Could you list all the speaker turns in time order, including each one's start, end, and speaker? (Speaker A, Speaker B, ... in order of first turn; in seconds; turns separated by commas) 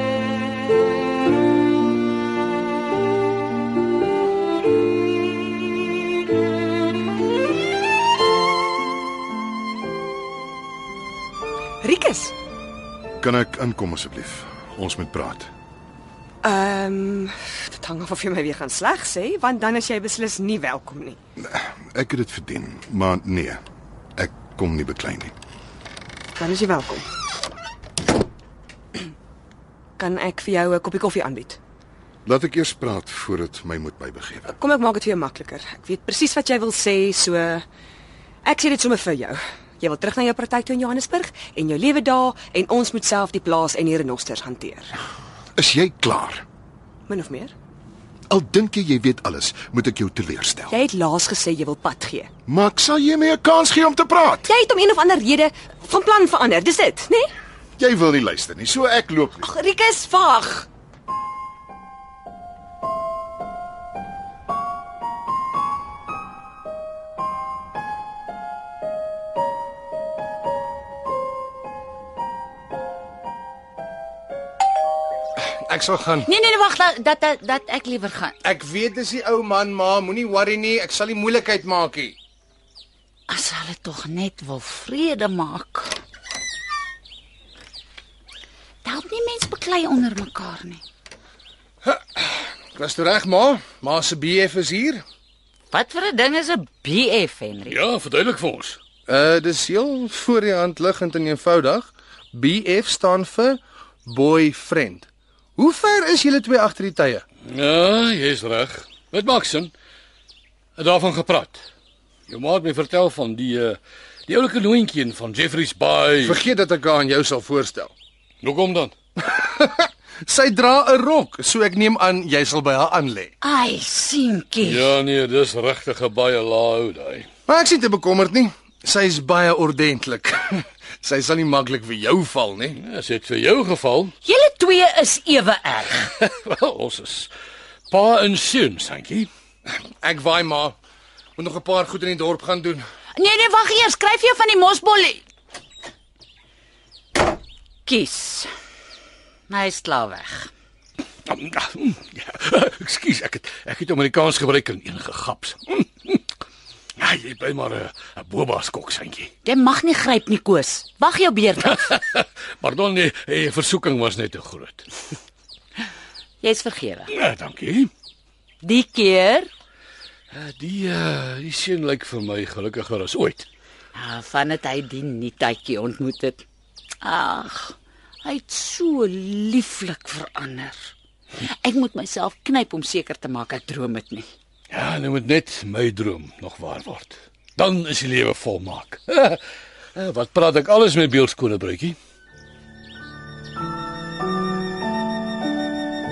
Speaker A: 11.8-12.3, Speaker B: 13.2-15.5, Speaker A: 16.4-21.2, Speaker B: 21.4-23.6, Speaker B: 24.2-25.3, Speaker A: 26.3-27.1, Speaker A: 30.0-31.6, Speaker B: 32.2-34.5, Speaker A: 34.5-37.6, Speaker A: 38.4-44.9, Speaker B: 45.6-46.4, Speaker A: 47.1-47.5, Speaker B: 48.3-50.8, Speaker A: 50.7-52.3, Speaker B: 52.5-54.5, Speaker A: 54.4-57.3, Speaker B: 57.8-59.5, Speaker A: 59.4-60.7, Speaker C: 75.4-76.3, Speaker D: 76.2-78.3, Speaker C: 78.4-82.2, Speaker D: 83.3-85.9, Speaker D: 88.8-90.8, Speaker C: 91.8-95.0, Speaker D: 95.7-97.8, Speaker E: 97.7-98.8, Speaker C: 99.1-107.2, Speaker E: 107.4-109.7, Speaker E: 110.8-111.6, Speaker E: 112.3-116.4, Speaker C: 116.2-117.9, Speaker E: 118.4-118.9, Speaker C: 119.2-123.3, Speaker D: 123.4-124.9, Speaker E: 124.6-127.3, Speaker C: 127.5-132.8, Speaker E: 132.8-134.1, Speaker D: 134.2-136.0, Speaker E: 136.0-137.3, Speaker E: 137.9-139.3, Speaker C: 140.0-140.8, Speaker C: 141.4-142.8, Speaker D: 143.1-145.2, Speaker D: 147.9-148.5, Speaker D: 149.5-150.5, Speaker E: 151.3-156.2, Speaker E: 157.0-159.3, Speaker D: 159.4-161.8, Speaker E: 161.7-164.9, Speaker D: 166.4-167.1, Speaker E: 167.1-167.9, Speaker D: 168.6-169.5, Speaker E: 170.3-173.4, Speaker D: 173.9-176.4, Speaker D: 177.0-184.3, Speaker E: 184.7-189.4, Speaker E: 189.9-192.0